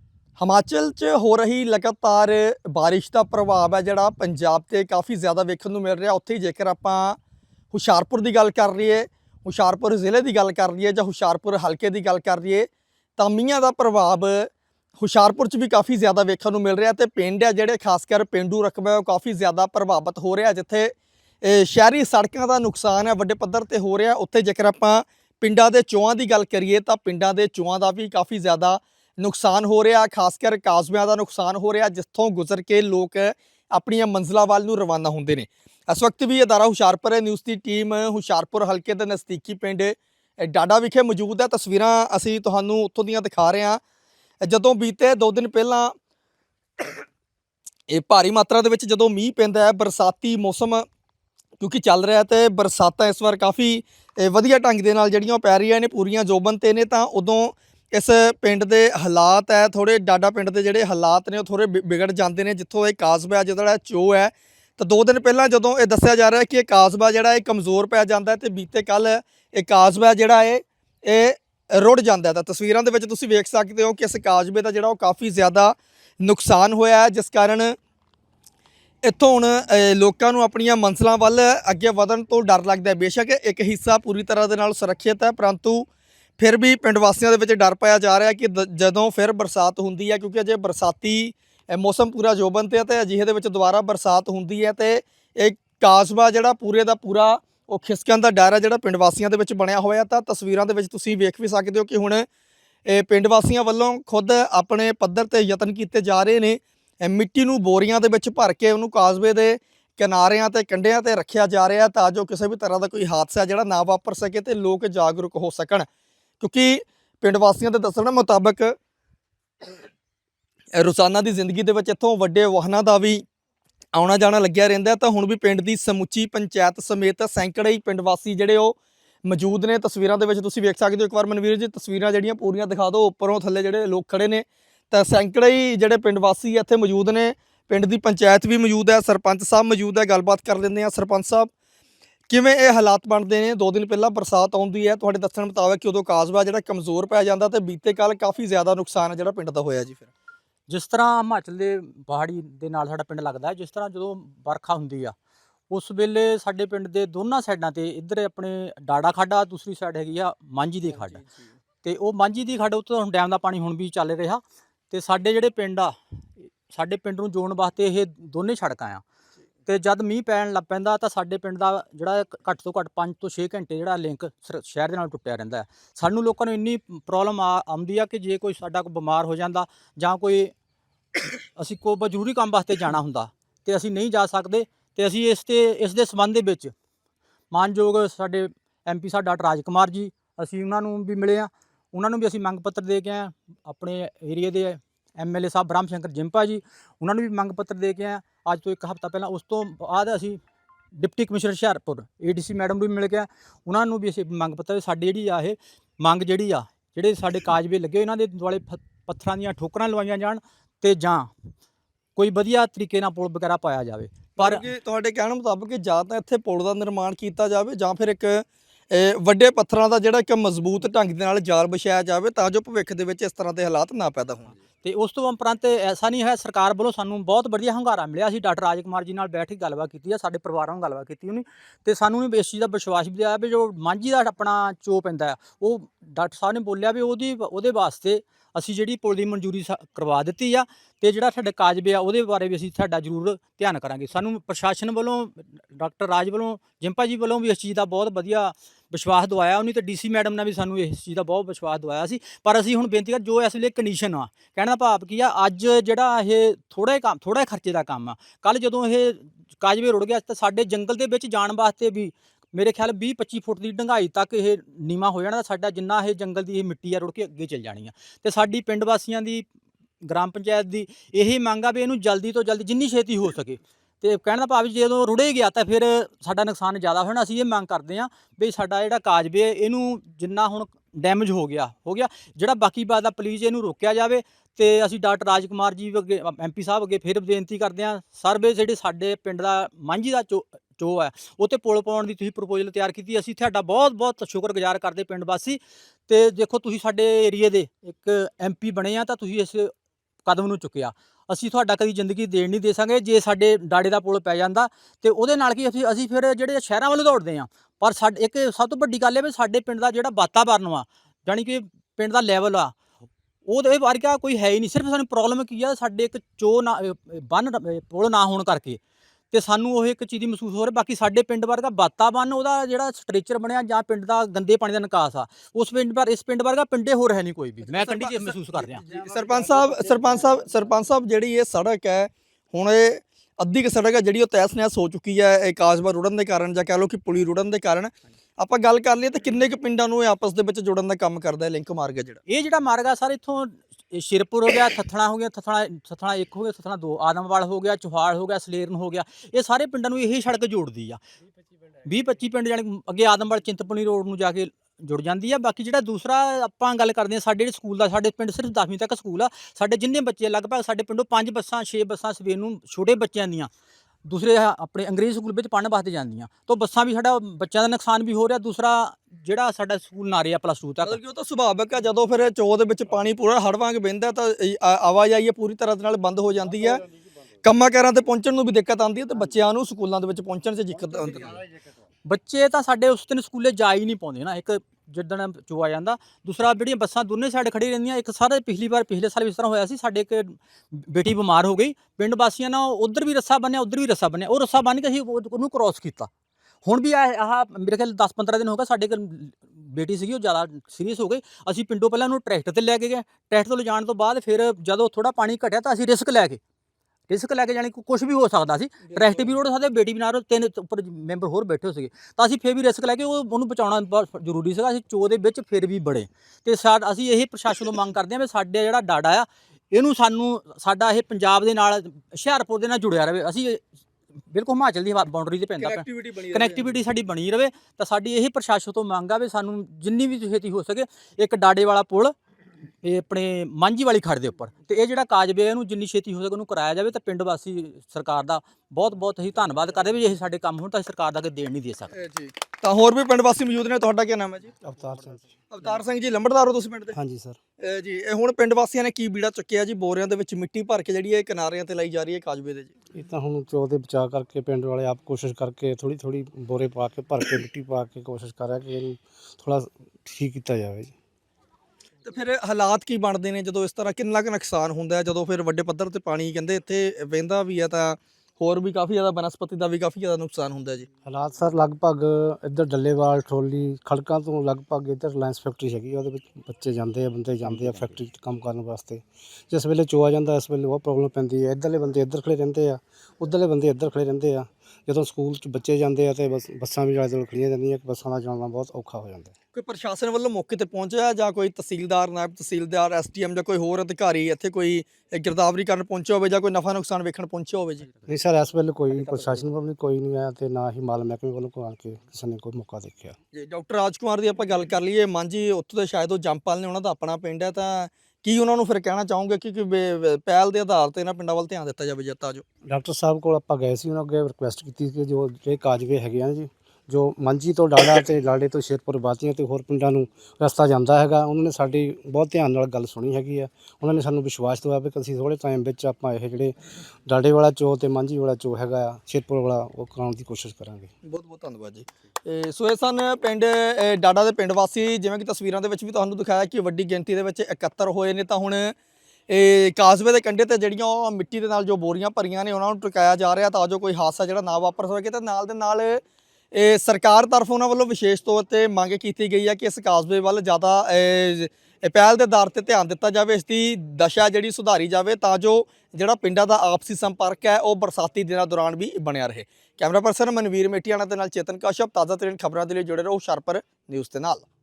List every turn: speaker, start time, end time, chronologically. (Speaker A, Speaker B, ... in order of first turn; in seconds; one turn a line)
Speaker A: 0.4-7.2
Speaker A: 7.7-43.8
Speaker A: 44.4-46.0
Speaker A: 47.9-50.9
Speaker A: 51.6-77.8
Speaker A: 79.0-85.9
Speaker A: 86.4-102.3
Speaker A: 102.9-115.9
Speaker A: 116.4-118.8
Speaker A: 120.7-123.2
Speaker A: 123.9-141.5
Speaker A: 142.3-150.1
Speaker B: 150.7-155.2
Speaker B: 155.7-161.2
Speaker B: 161.8-165.9
Speaker B: 166.7-169.0
Speaker B: 169.7-180.5
Speaker B: 181.6-186.7
Speaker B: 187.5-200.4
Speaker B: 200.9-211.3
Speaker B: 212.2-214.6
Speaker A: 214.4-224.6
Speaker B: 224.8-269.5
Speaker B: 270.0-299.7
Speaker B: 300.2-312.8
Speaker B: 313.5-318.8
Speaker B: 319.3-328.8
Speaker A: 327.8-328.1
Speaker A: 328.9-342.2
Speaker B: 342.3-351.0
Speaker B: 351.9-363.5
Speaker B: 364.1-371.0
Speaker A: 370.9-376.9
Speaker A: 377.4-381.4
Speaker B: 382.1-396.1
Speaker B: 396.6-406.4
Speaker B: 407.1-423.6
Speaker A: 408.9-409.3
Speaker B: 424.3-432.1
Speaker A: 425.6-426.8
Speaker B: 432.8-441.9
Speaker A: 441.9-444.5
Speaker C: 444.6-445.4
Speaker A: 445.5-446.9
Speaker C: 446.9-447.4
Speaker A: 447.6-452.7
Speaker C: 452.9-460.9
Speaker A: 462.1-470.9
Speaker C: 471.1-489.3
Speaker A: 489.5-497.9
Speaker C: 498.1-503.2
Speaker A: 503.3-512.4
Speaker C: 512.6-526.5
Speaker C: 527.0-530.9
Speaker A: 531.0-538.8
Speaker A: 539.3-564.5